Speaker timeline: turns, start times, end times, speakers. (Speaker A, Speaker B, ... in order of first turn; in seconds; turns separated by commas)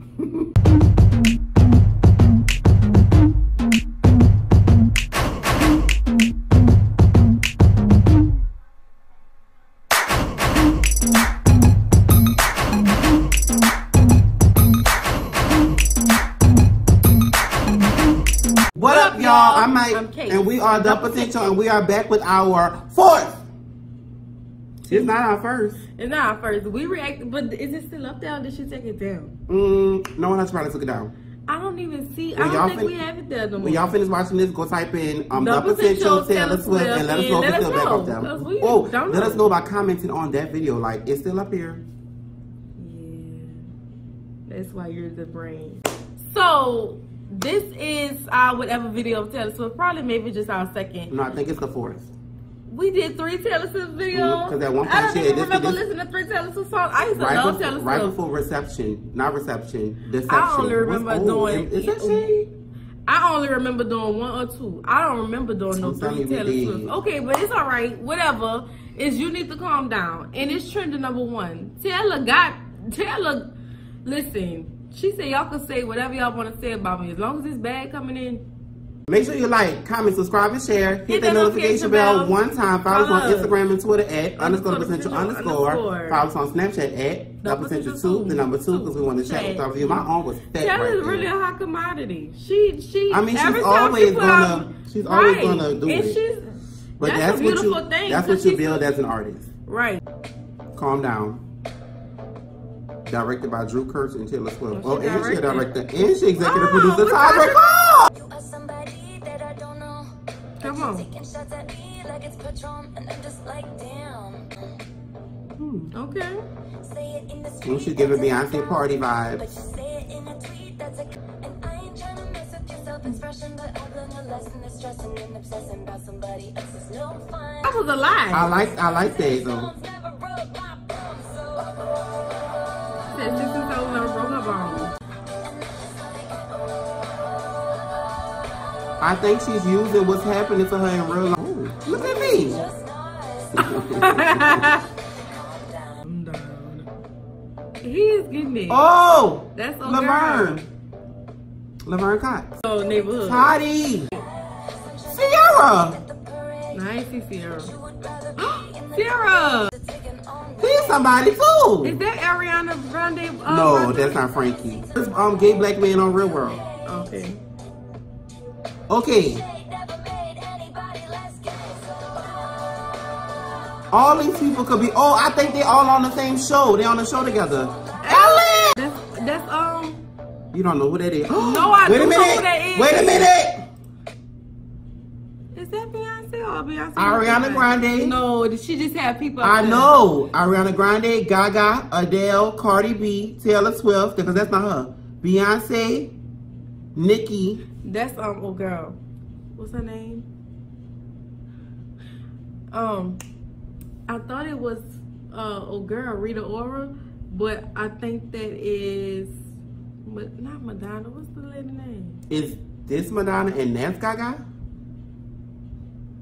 Speaker A: 0.2-0.5, Speaker A: 18.8-23.4, Speaker B: 18.8-21.5, Speaker B: 24.9-25.2, Speaker A: 24.9-25.8, Speaker B: 26.0-29.3, Speaker A: 29.5-31.1, Speaker B: 31.5-33.9, Speaker A: 32.4-33.0, Speaker A: 33.6-41.9, Speaker B: 35.3-39.5, Speaker B: 42.8-43.6, Speaker B: 44.5-51.1, Speaker A: 51.1-52.1, Speaker B: 52.7-58.2, Speaker A: 54.1-55.8, Speaker A: 57.1-62.5, Speaker B: 60.3-62.3, Speaker B: 63.1-73.5, Speaker A: 65.7-66.9, Speaker B: 74.0-78.4, Speaker A: 79.1-91.3, Speaker B: 81.1-83.6, Speaker B: 84.4-86.2, Speaker B: 87.4-98.9, Speaker A: 93.1-96.2, Speaker A: 97.0-99.5, Speaker B: 99.7-100.0, Speaker A: 100.8-101.4, Speaker A: 103.1-108.1, Speaker B: 104.7-105.7, Speaker B: 106.4-107.6, Speaker C: 108.1-114.6, Speaker B: 110.6-111.1, Speaker A: 115.6-115.9, Speaker B: 115.9-116.4, Speaker C: 116.8-118.8, Speaker A: 117.6-119.5, Speaker C: 119.4-127.8, Speaker B: 127.6-128.6, Speaker A: 128.3-129.7, Speaker C: 128.8-132.7, Speaker B: 133.1-134.9, Speaker C: 135.4-138.9, Speaker A: 139.0-142.7, Speaker C: 141.9-146.0, Speaker A: 143.6-144.2, Speaker B: 143.6-144.8, Speaker B: 146.0-146.9, Speaker B: 147.8-148.8, Speaker A: 148.7-150.7, Speaker B: 149.5-150.6, Speaker A: 151.8-152.6, Speaker B: 152.6-153.5, Speaker A: 153.2-154.1, Speaker C: 154.2-156.8, Speaker A: 155.1-156.0, Speaker B: 156.7-157.7, Speaker C: 157.6-161.1, Speaker B: 158.4-159.7, Speaker A: 160.6-162.0, Speaker B: 161.8-164.2, Speaker A: 163.5-166.6, Speaker C: 164.4-165.4, Speaker C: 166.0-167.2, Speaker B: 166.8-167.4, Speaker A: 168.9-169.4, Speaker C: 169.3-173.0, Speaker A: 173.9-178.8, Speaker B: 178.0-180.0, Speaker A: 180.5-183.7, Speaker B: 181.3-183.3, Speaker B: 185.6-190.0, Speaker A: 187.0-188.2, Speaker A: 189.4-196.1, Speaker A: 196.9-197.6, Speaker B: 197.8-199.0, Speaker B: 199.6-200.3, Speaker B: 202.7-203.2, Speaker B: 204.1-209.3, Speaker B: 210.1-212.2, Speaker A: 212.3-214.4